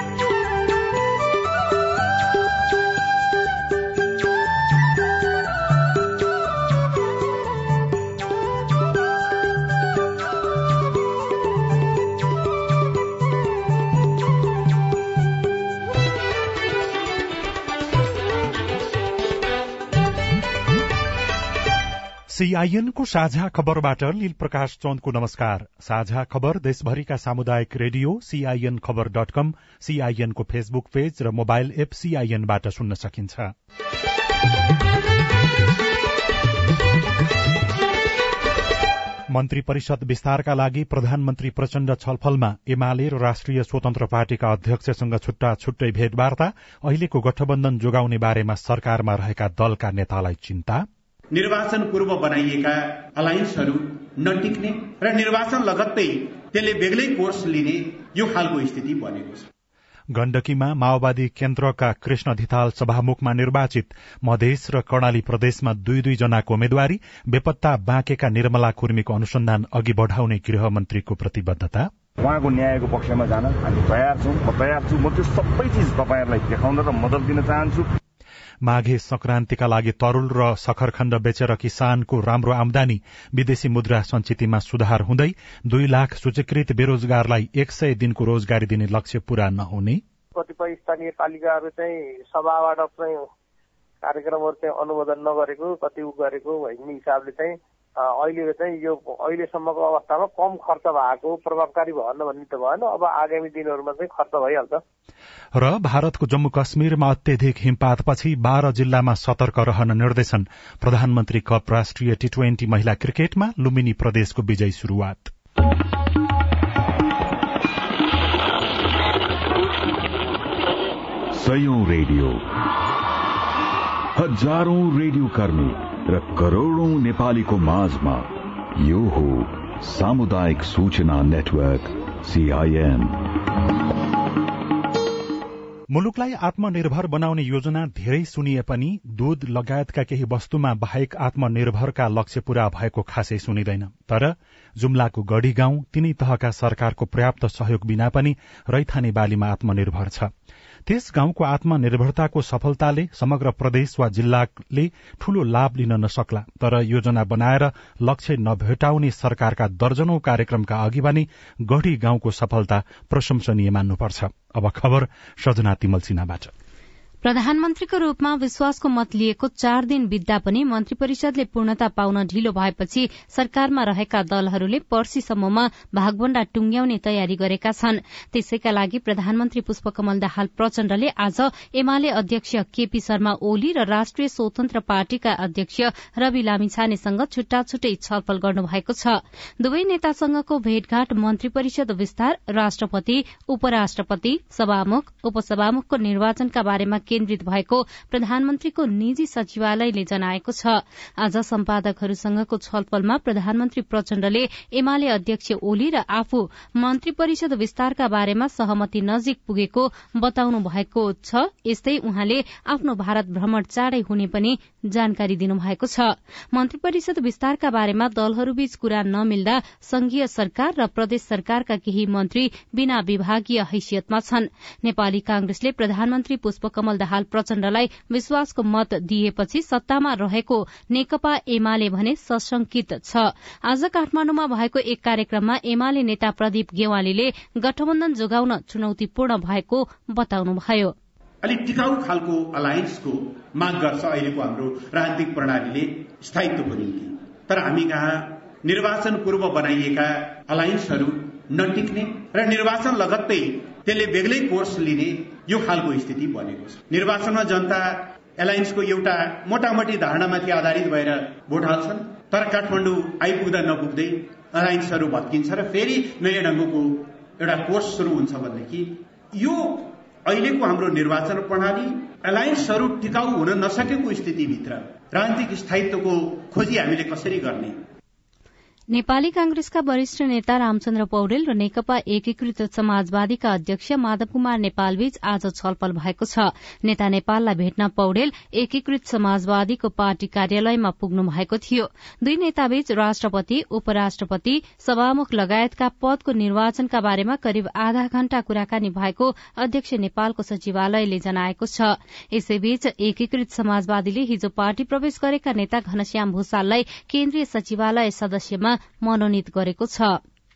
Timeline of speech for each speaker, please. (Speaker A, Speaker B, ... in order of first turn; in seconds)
Speaker A: 22.3-33.5, 39.3-50.9, 60.1-71.9, 78.6-90.0, 105.5-115.3, 135.9-150.3, 150.9-166.5
Speaker B: 51.3-59.5, 241.4-277.8
Speaker C: 72.2-77.9
Speaker D: 90.3-93.2, 94.0-104.8
Speaker E: 121.3-122.4, 124.2-133.2
Speaker F: 167.2-240.9, 278.9-310.2